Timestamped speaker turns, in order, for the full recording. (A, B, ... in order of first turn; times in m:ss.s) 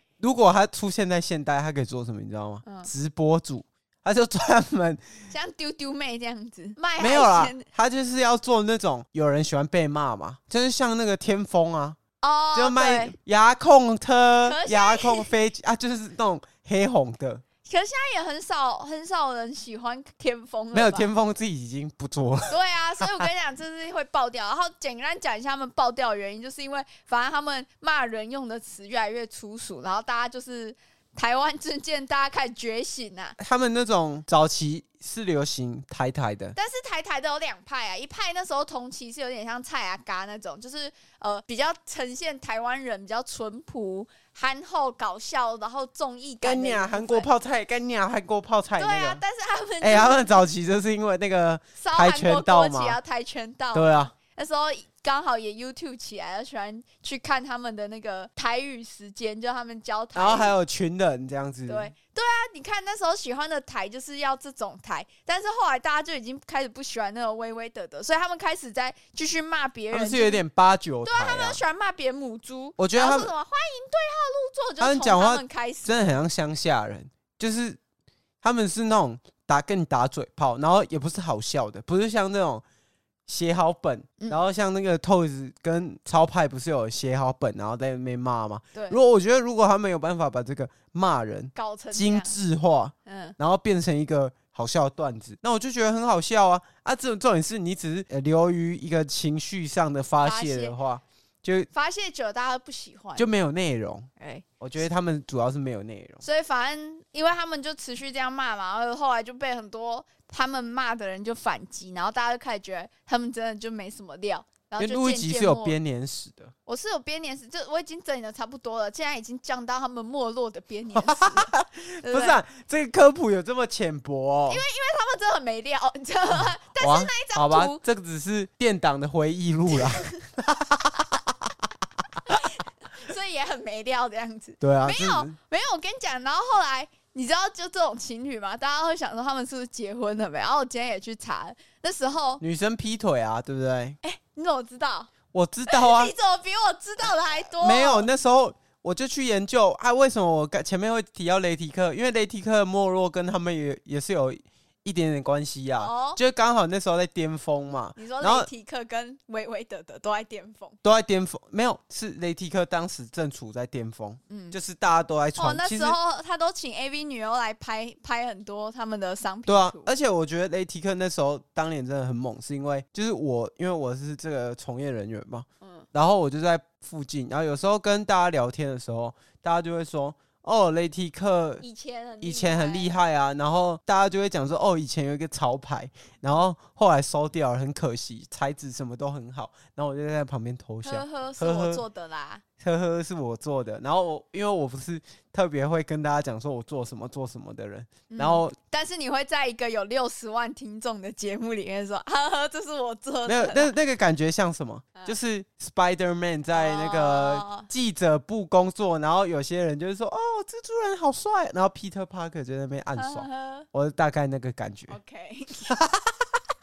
0:00.2-0:05.0 A
0:02.6-0:02.9 B
0:05.3-0:07.6 B
0:07.0-0:12.0 A
0:12.2-0:13.1 B
0:12.5-0:17.4 A
0:14.4-0:15.3 B
0:17.6-0:21.1 B
0:20.7-0:23.3 A
0:22.5-0:33.4 B
0:33.4-0:36.6 A
0:36.6-0:47.3 B
0:46.4-0:49.2 A
0:48.8-0:50.4 B
0:49.8-0:53.0 A
0:51.8-1:00.6 B
0:53.7-0:54.1 A
1:00.1-1:01.9 A
1:01.7-1:10.4 B
1:09.9-1:11.6 A
1:11.0-1:16.2 B
1:12.8-1:13.3 A
1:14.8-1:17.8 A
1:18.4-1:22.6 A
1:23.2-1:41.7 A
1:28.7-1:29.0 B
1:31.5-1:32.4 B
1:33.0-1:33.4 B
1:40.2-1:40.8 B
1:41.7-1:43.3 B
1:43.2-1:44.1 A
1:44.2-1:44.4 B
1:44.6-1:46.2 A
1:46.2-1:55.8 B
1:54.8-1:56.5 A
1:56.6-2:02.4 B
2:00.9-2:04.6 A
2:04.5-2:07.8 B
2:06.8-2:11.5 A
2:12.3-2:22.4 B
2:14.6-2:15.4 A
2:22.4-2:24.0 A
2:24.0-2:25.1 B
2:25.3-2:26.1 A
2:25.7-2:28.1 B
2:27.6-2:38.5 A
2:35.8-2:36.2 B
2:38.0-2:40.8 B
2:40.8-2:46.0 A
2:44.3-2:44.6 B
2:45.4-2:49.9 B
2:49.5-3:01.6 A
2:55.6-2:55.9 B
3:01.6-3:03.0 B
3:02.2-3:11.8 A
3:10.8-3:12.4 B
3:12.6-3:18.6 A
3:18.1-3:23.7 B
3:23.2-3:35.0 A
3:26.5-3:27.7 B
3:33.0-3:33.7 B
3:34.9-3:35.8 B
3:35.7-3:36.1 A